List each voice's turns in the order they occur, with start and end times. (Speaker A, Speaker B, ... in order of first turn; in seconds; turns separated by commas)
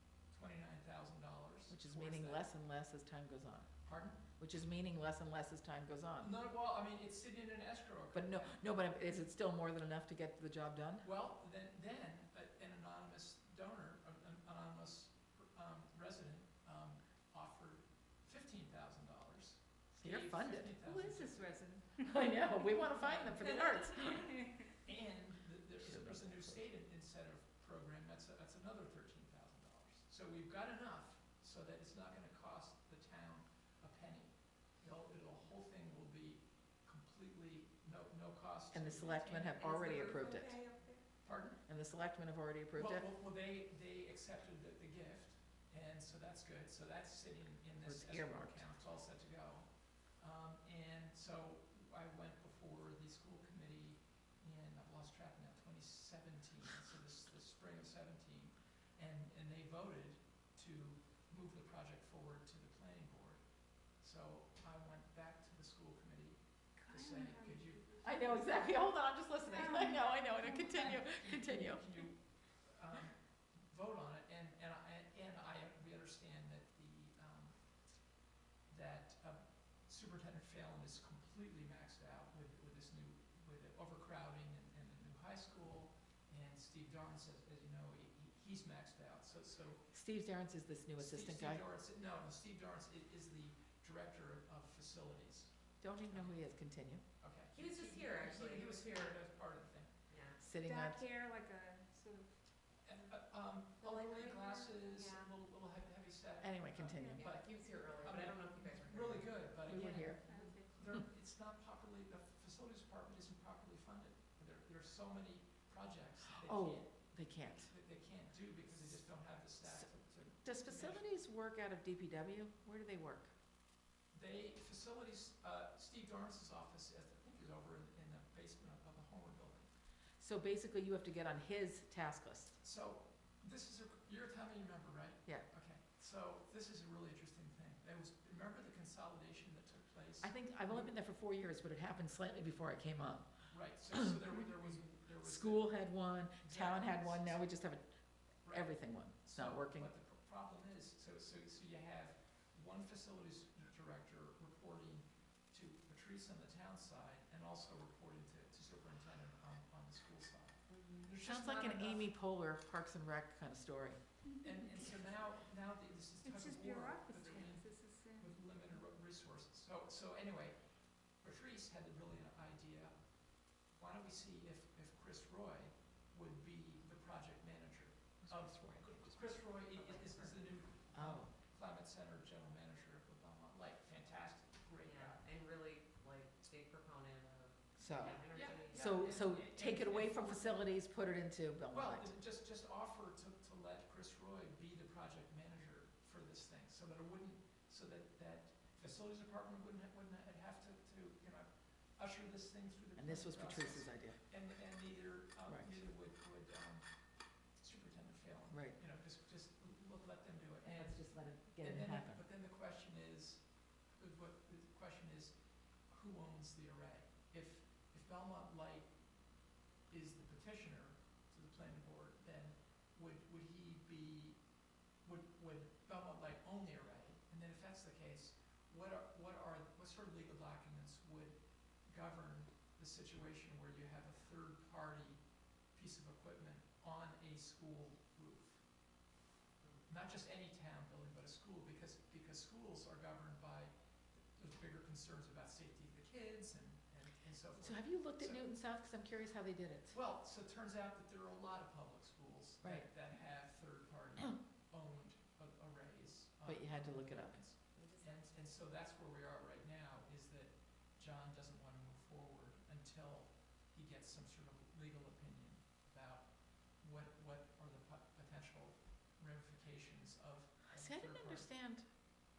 Speaker A: 0.3-2.5, Speaker B: 1.7-6.3, Speaker A: 3.8-4.2, Speaker A: 6.2-8.6, Speaker B: 8.1-11.1, Speaker A: 11.0-21.5, Speaker B: 19.9-20.8, Speaker C: 20.8-22.7, Speaker B: 22.0-24.4, Speaker A: 22.8-24.1, Speaker D: 23.4-23.7, Speaker C: 24.0-24.6, Speaker A: 24.8-39.5, Speaker B: 25.8-26.6, Speaker B: 38.7-40.6, Speaker D: 39.6-41.1, Speaker A: 41.2-41.6, Speaker B: 41.6-43.0, Speaker A: 42.7-63.4, Speaker B: 47.8-48.7, Speaker A: 64.0-68.6, Speaker C: 66.8-71.0, Speaker B: 68.0-72.0, Speaker A: 70.7-77.6, Speaker A: 78.7-89.9, Speaker B: 89.9-91.6, Speaker A: 91.0-95.5, Speaker B: 95.8-97.0, Speaker A: 96.0-96.5, Speaker A: 97.2-99.9, Speaker D: 97.5-99.2, Speaker D: 100.1-100.4, Speaker B: 100.4-101.0, Speaker C: 100.5-103.1, Speaker A: 102.8-121.1, Speaker D: 103.8-105.3, Speaker B: 106.4-107.2, Speaker C: 106.9-107.2, Speaker D: 107.0-110.6, Speaker B: 109.7-110.2, Speaker C: 110.2-110.8, Speaker B: 116.3-117.7, Speaker B: 120.4-123.3, Speaker A: 124.1-129.7, Speaker B: 130.2-132.6, Speaker A: 132.6-140.9, Speaker B: 140.2-143.3, Speaker A: 143.5-145.8, Speaker B: 143.9-144.2, Speaker B: 145.2-147.8, Speaker A: 146.4-147.4, Speaker A: 148.4-162.1, Speaker B: 148.5-149.9, Speaker D: 160.7-161.3, Speaker B: 161.2-164.0, Speaker C: 164.3-164.6, Speaker A: 164.4-173.0, Speaker C: 166.2-168.4, Speaker A: 173.6-185.2, Speaker B: 178.2-179.2, Speaker D: 179.7-180.6, Speaker B: 180.9-181.3, Speaker D: 184.8-189.4, Speaker B: 187.8-192.1, Speaker A: 188.3-190.6, Speaker A: 191.7-206.9, Speaker B: 202.9-204.2, Speaker B: 205.5-205.8, Speaker A: 207.6-211.1, Speaker B: 208.5-208.8, Speaker B: 210.6-212.2, Speaker A: 211.6-213.4, Speaker A: 213.9-215.4, Speaker A: 215.9-218.9, Speaker A: 219.9-224.4, Speaker A: 225.0-235.2, Speaker A: 235.7-238.6, Speaker A: 239.9-248.4, Speaker B: 247.6-249.9, Speaker A: 249.9-271.5, Speaker B: 252.6-252.9, Speaker B: 256.4-257.4, Speaker D: 257.7-258.3, Speaker B: 270.7-271.9